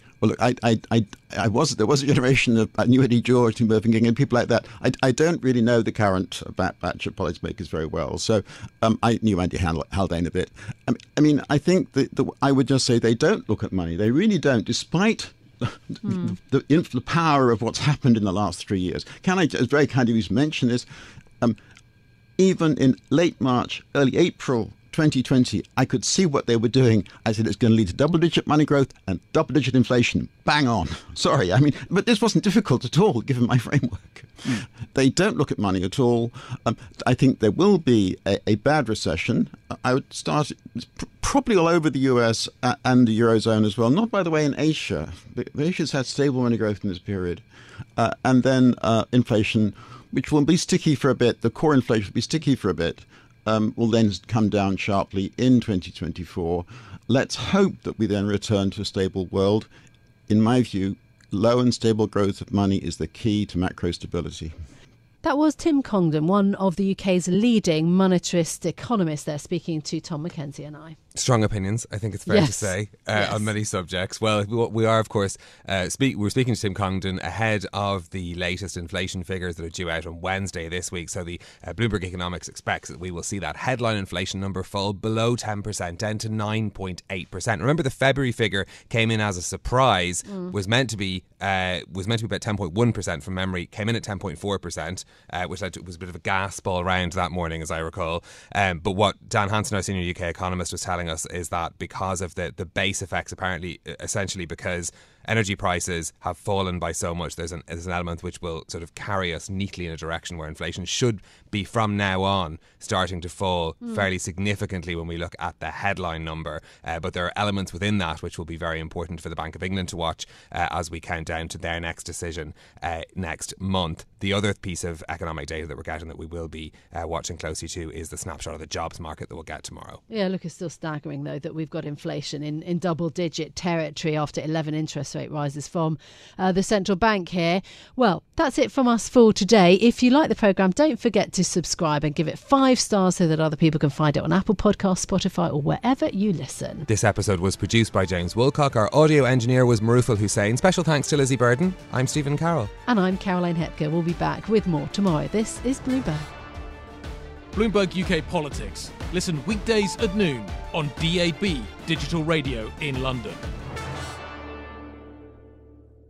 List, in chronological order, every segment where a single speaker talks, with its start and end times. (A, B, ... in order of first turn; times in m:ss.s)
0:00.2-0:20.9 A
0:22.4-0:47.4 A
0:48.0-0:59.7 A
1:00.3-1:04.5 A
1:05.2-1:11.0 B
1:11.2-2:10.0 C
1:12.3-1:13.4 B
2:10.1-2:26.9 B
2:26.9-2:32.7 C
2:32.9-2:36.3 B
2:37.5-2:43.4 D